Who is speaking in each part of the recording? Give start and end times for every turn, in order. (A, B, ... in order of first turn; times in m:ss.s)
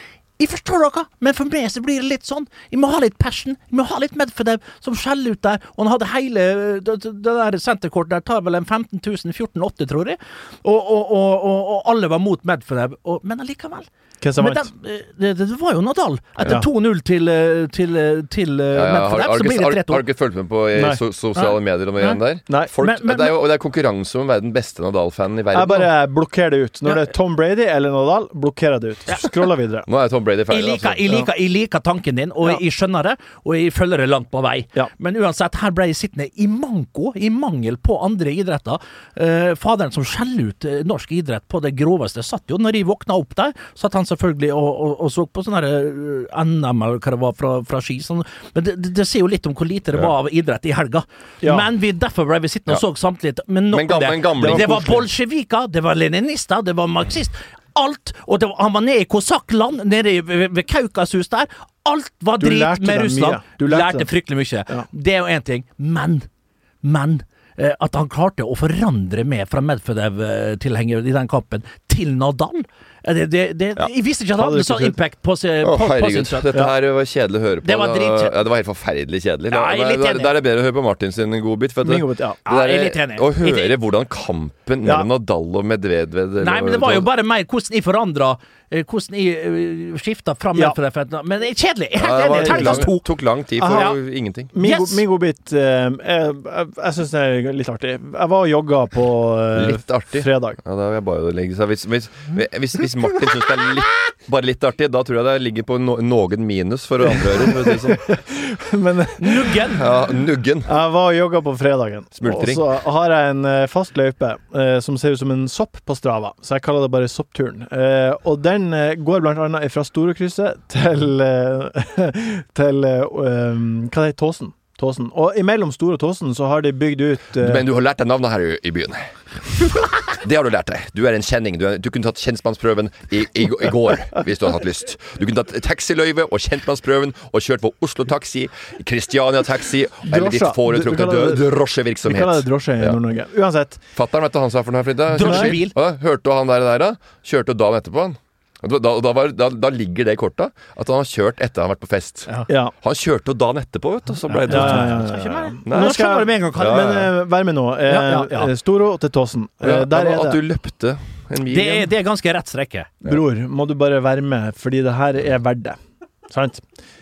0:00.4-0:13.9 A
0:14.2-0:14.7 B
0:14.4-0:20.0 A
0:16.4-0:16.7 B
0:18.7-0:25.9 C
0:20.8-0:21.0 B
0:21.4-0:22.2 A
0:22.8-0:23.4 A
0:25.5-0:29.9 B
0:29.9-0:31.0 C
0:30.5-1:06.3 A
0:51.4-0:51.7 B
0:53.7-0:55.0 C
0:54.4-0:55.0 B
1:02.4-1:04.1 B
1:06.8-1:16.5 A
1:14.4-1:15.0 B
1:15.6-1:27.1 C
1:17.6-1:18.3 A
1:19.5-1:20.3 A
1:21.8-1:22.4 B
1:22.5-1:23.7 A
1:26.4-1:33.1 A
1:32.0-1:34.5 C
1:32.4-1:32.9 B
1:33.6-1:34.0 B
1:34.5-1:40.6 B
1:34.6-1:35.0 A
1:39.6-1:48.0 C
1:47.0-1:49.6 B
1:49.2-1:49.8 A
1:49.8-1:50.7 C
1:50.7-2:07.6 B
1:52.2-1:52.6 C
2:07.4-2:23.0 C
2:20.0-2:21.4 B
2:22.0-2:23.8 B
2:24.0-2:32.3 C
2:25.1-2:25.7 A
2:25.2-2:25.6 B
2:32.5-2:32.7 B
2:32.8-2:35.0 C
2:34.3-2:36.9 A
2:34.5-2:40.4 B
2:35.7-2:37.1 C
2:37.9-2:38.5 A
2:39.6-2:41.9 C
2:41.5-2:42.9 A
2:43.0-2:45.8 B
2:46.3-2:46.6 B